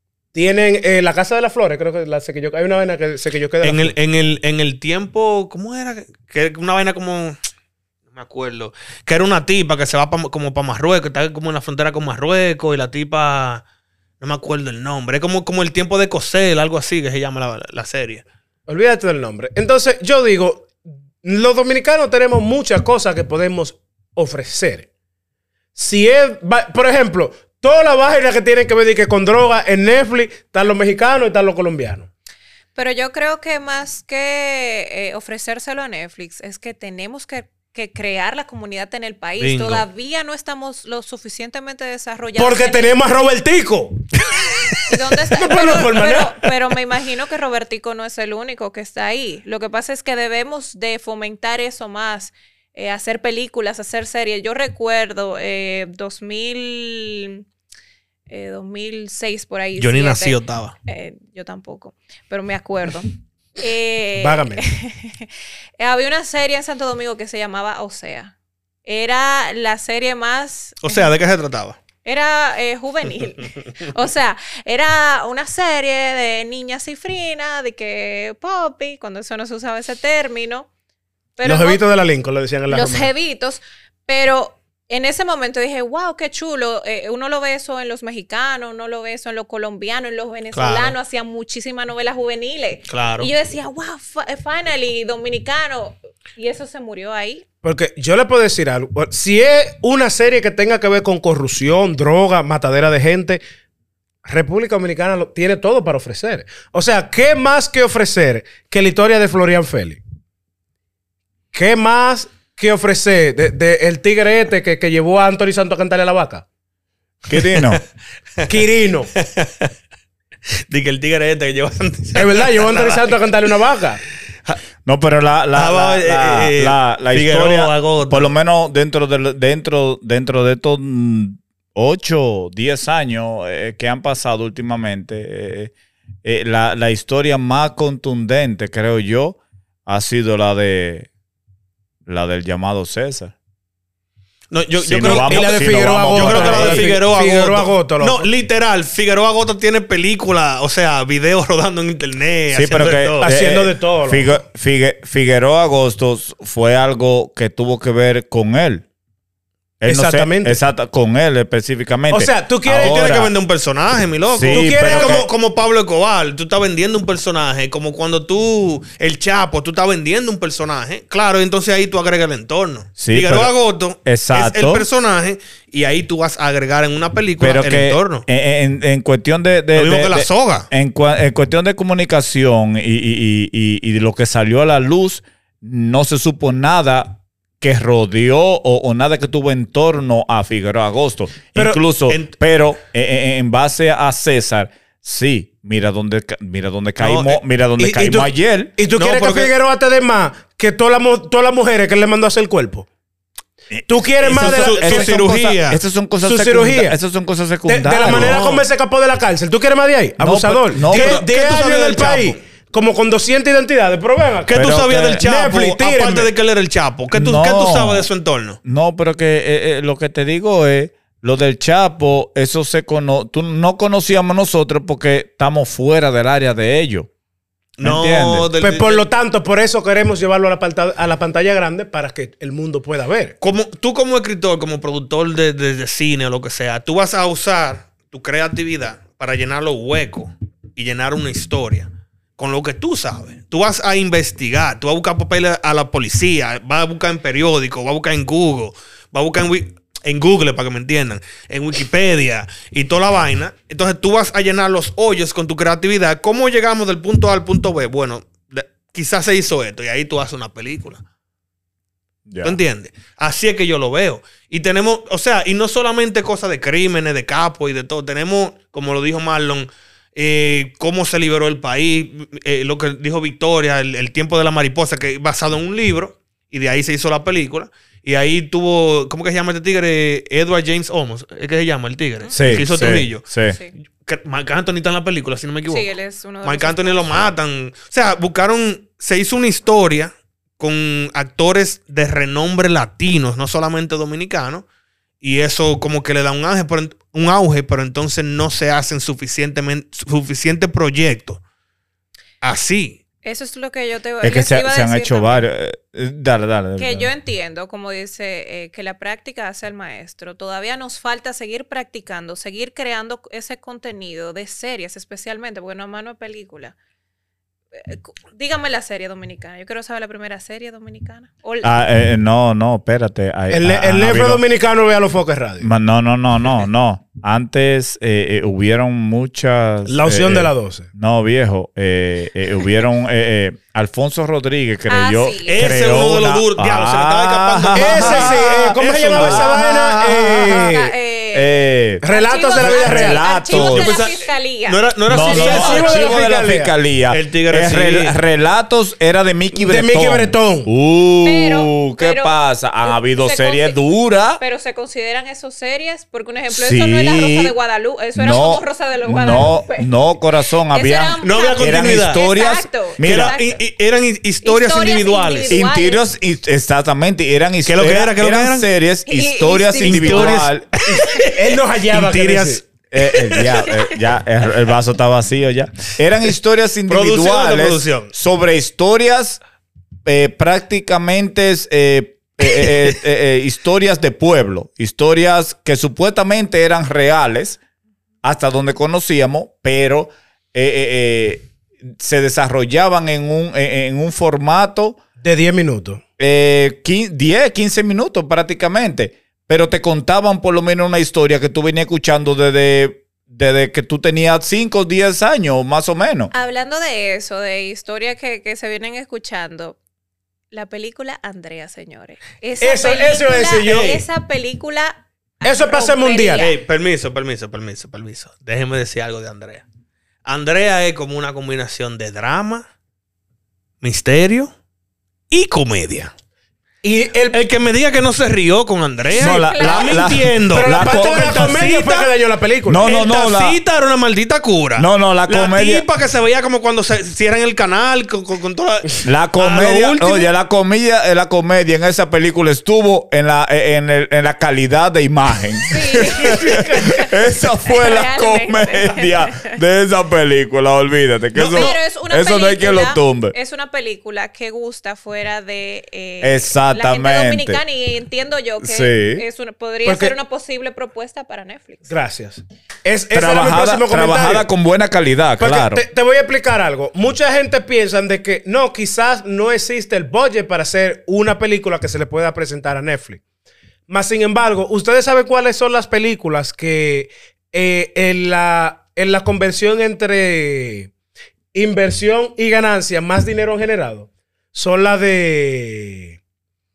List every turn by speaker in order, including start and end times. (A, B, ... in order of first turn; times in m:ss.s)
0:00.3-0:03.9 A
0:03.6-0:07.4 B
0:08.1-0:13.6 B
0:14.2-0:18.2 B
0:18.7-0:24.9 A
0:25.8-0:32.1 A
0:32.7-0:42.9 C
0:39.4-0:39.8 B
0:42.4-0:44.7 A
0:44.9-0:57.4 C
0:45.2-0:46.4 A
0:58.3-1:08.3 C
0:59.8-1:00.7 B
1:04.2-1:04.6 A
1:08.8-1:11.1 C
1:10.8-1:11.8 B
1:12.0-1:20.7 C
1:21.4-1:21.8 C
1:21.4-1:23.1 A
1:22.7-1:37.4 C
1:30.5-1:31.0 B
1:32.9-1:33.3 B
1:37.6-1:43.4 A
1:44.2-1:50.0 A
1:51.5-1:56.4 A
1:57.3-1:57.8 D
1:57.5-1:57.8 B
1:58.4-1:59.1 A
1:59.2-1:59.7 B
2:00.7-2:03.1 B
2:02.1-2:04.0 A
2:04.8-2:15.7 D
2:05.5-2:08.3 B
2:16.2-2:21.1 D
2:22.0-2:23.3 D
2:24.5-2:33.3 B
2:24.8-2:27.0 D
2:25.0-2:28.3 A
2:32.5-2:38.8 D
2:33.2-2:34.4 A
2:39.8-2:43.3 D
2:39.8-2:40.6 A
2:42.1-2:43.0 A
2:42.6-2:58.2 B
2:44.3-2:45.3 D
2:44.5-2:45.2 A
2:53.0-2:54.9 D
2:57.4-3:18.7 D
2:59.7-3:00.7 B
3:11.5-3:11.8 A
3:12.1-3:12.4 B
3:17.0-3:17.4 B
3:17.8-3:22.9 A
3:19.0-3:19.5 B
3:23.8-3:28.4 D
3:23.8-3:25.1 A
3:24.2-3:25.8 B
3:26.2-3:27.0 A
3:27.6-3:34.6 A
3:28.0-3:28.6 B
3:30.2-3:31.2 D
3:30.9-3:32.4 B
3:34.5-3:38.6 B
3:34.5-3:35.2 D
3:35.2-3:36.3 A
3:37.1-3:38.1 D
3:38.6-3:47.1 D
3:47.8-3:49.0 B
3:47.8-3:48.5 D
3:48.6-3:53.3 A
3:53.4-4:21.0 B
4:22.3-4:22.6 D
4:22.4-4:43.3 B
4:42.2-4:43.0 C
4:42.3-4:43.6 D
4:44.0-4:45.9 B
4:45.7-4:47.3 C
4:46.4-4:54.6 B
4:55.2-5:01.4 B
5:02.4-5:03.0 B
5:03.2-5:05.4 C
5:04.2-5:07.1 D
5:06.8-5:16.7 C
5:17.7-5:21.7 C
5:21.6-5:24.4 D
5:23.5-5:25.7 A
5:25.6-5:39.6 D
5:29.9-5:30.9 A
5:34.9-5:35.7 C
5:35.4-5:39.8 B
5:37.7-5:40.9 A
5:40.3-5:45.8 C
5:41.3-5:42.0 D
5:42.0-5:43.3 A
5:42.5-5:44.0 D
5:43.5-5:46.2 B
5:45.1-5:54.4 D
5:45.2-5:46.7 A
5:47.1-5:48.1 B
5:49.5-5:50.7 A
5:51.2-5:53.8 C
5:54.4-5:59.9 C
5:56.5-5:57.5 D
5:58.2-6:03.4 D
6:00.7-6:03.6 C
6:01.2-6:02.2 B
6:03.0-6:05.6 B
6:04.4-6:06.0 C
6:05.5-6:10.7 D
6:07.6-6:08.7 B
6:09.1-6:10.5 C
6:09.8-6:13.7 B
6:11.3-6:12.6 A
6:12.9-6:19.4 D
6:16.9-6:18.1 B
6:20.0-6:27.6 D
6:28.2-6:35.0 D
6:35.2-6:36.0 A
6:36.2-6:46.3 D
6:46.3-6:49.8 C
6:50.5-6:56.6 C
6:52.6-6:54.0 A
6:55.4-6:56.5 A
6:56.4-6:59.6 B
7:00.2-7:02.7 B
7:03.8-7:04.5 B
7:05.3-7:06.1 B
7:06.8-7:07.4 A
7:07.3-7:12.1 B
7:09.1-7:10.1 C
7:09.2-7:11.6 D
7:10.5-7:12.8 A
7:12.7-7:13.6 D
7:12.8-7:20.3 B
7:14.8-7:15.8 D
7:19.0-7:33.3 D
7:25.7-7:29.5 C
7:31.4-7:41.9 C
7:36.2-7:37.6 D
7:38.6-7:39.2 D
7:39.8-7:40.1 A
7:41.9-7:44.5 A
7:43.1-7:45.8 D
7:45.4-7:53.2 A
7:53.9-8:00.9 A
8:01.5-8:06.2 A